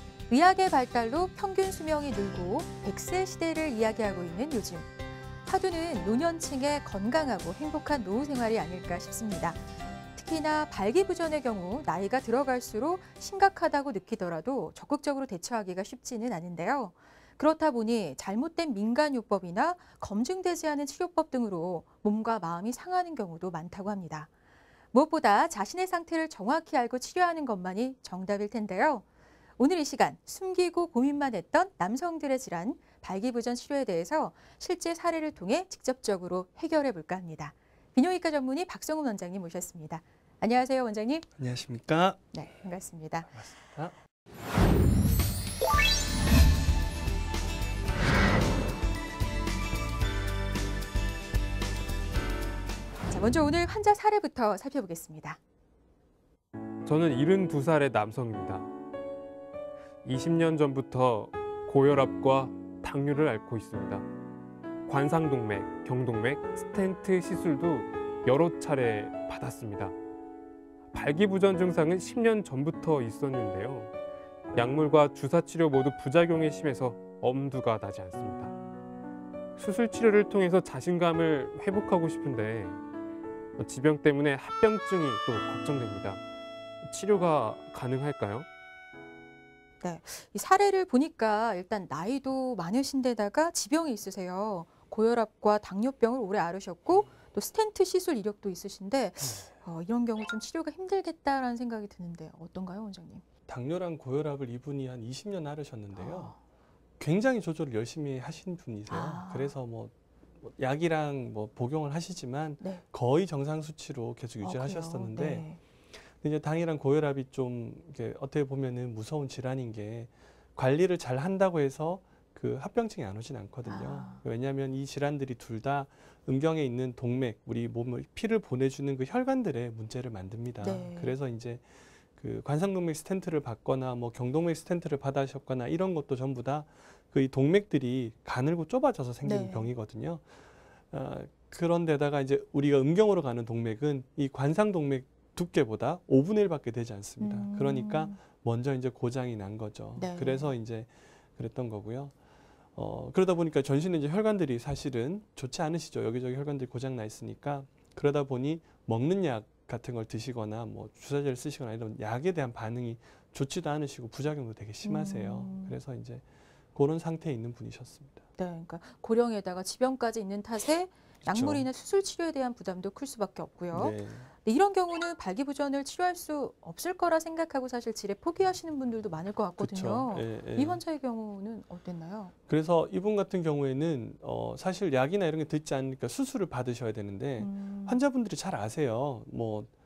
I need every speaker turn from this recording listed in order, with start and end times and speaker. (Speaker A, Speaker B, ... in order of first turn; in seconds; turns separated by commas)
Speaker A: 0.3-4.9, Speaker A: 5.5-9.6, Speaker A: 10.1-24.3, Speaker A: 24.9-29.1, Speaker A: 29.6-41.3, Speaker B: 41.4-42.2, Speaker A: 42.3-43.3, Speaker B: 43.3-43.9, Speaker A: 53.1-55.4, Speaker C: 56.9-58.7, Speaker C: 60.0-64.0, Speaker C: 64.9-70.0, Speaker C: 70.9-73.9, Speaker C: 74.5-78.5, Speaker C: 79.6-82.8, Speaker C: 83.6-86.2, Speaker C: 86.8-88.5, Speaker A: 89.8-103.2, Speaker B: 103.5-106.3, Speaker A: 106.0-106.4, Speaker B: 107.0-115.5, Speaker A: 108.9-109.5, Speaker A: 114.4-115.6, Speaker B: 116.2-131.7, Speaker A: 123.6-124.2, Speaker A: 130.6-131.2, Speaker B: 132.2-140.2, Speaker A: 139.2-139.7, Speaker B: 140.9-152.1, Speaker A: 147.2-148.2, Speaker A: 150.0-150.5, Speaker B: 152.8-168.2, Speaker A: 164.8-165.8, Speaker A: 168.4-182.3, Speaker B: 171.2-171.7, Speaker B: 173.7-174.3, Speaker B: 179.6-180.8, Speaker B: 182.5-189.7, Speaker A: 187.4-188.0